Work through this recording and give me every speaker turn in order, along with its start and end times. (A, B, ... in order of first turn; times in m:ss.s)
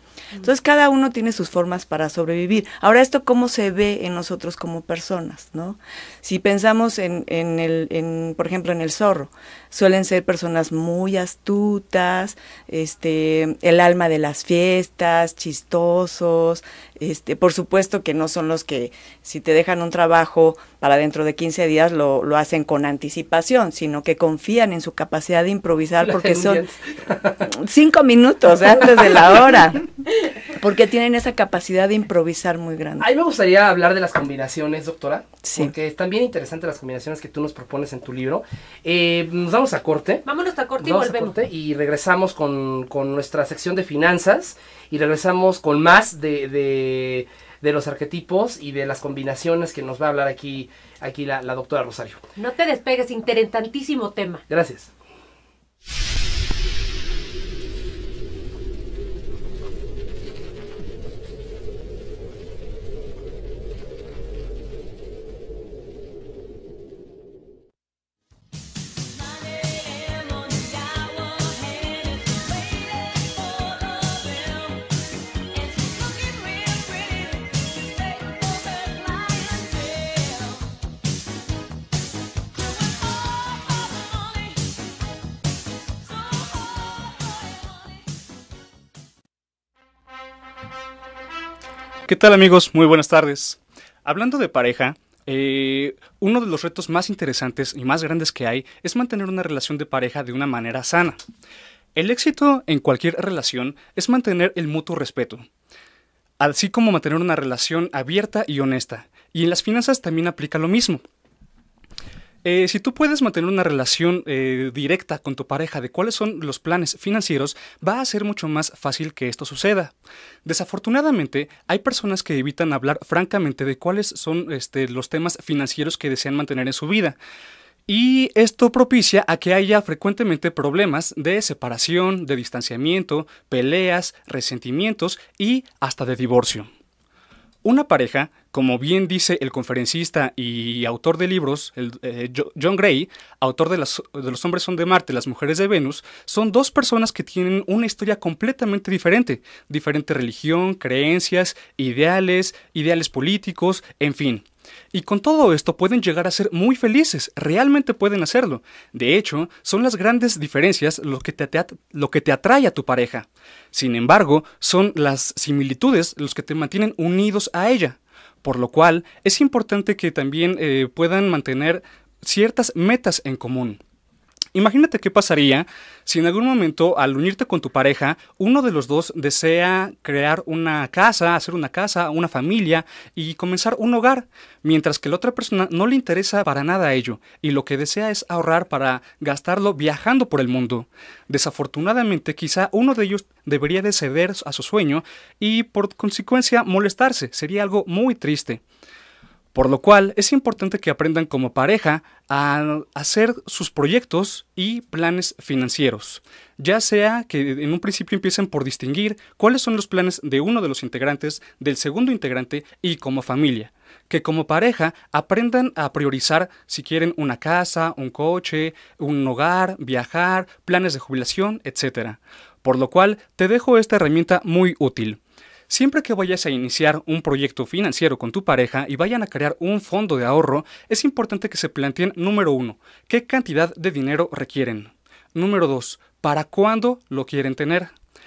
0:00.4-0:26.6 A
0:26.0-0:27.5 B
0:27.4-0:33.1 A
0:33.0-0:40.2 B
0:35.4-0:35.7 A
0:40.2-0:41.4 C
0:40.8-0:52.2 B
0:52.4-0:54.4 C
0:54.5-0:54.9 B
1:32.1-1:41.2 D
1:42.0-1:45.4 D
1:46.4-1:51.0 D
1:52.4-1:59.9 D
2:00.4-2:07.2 D
2:07.9-2:16.7 D
2:17.6-2:53.8 D
2:54.5-3:18.6 D
3:19.5-3:57.9 D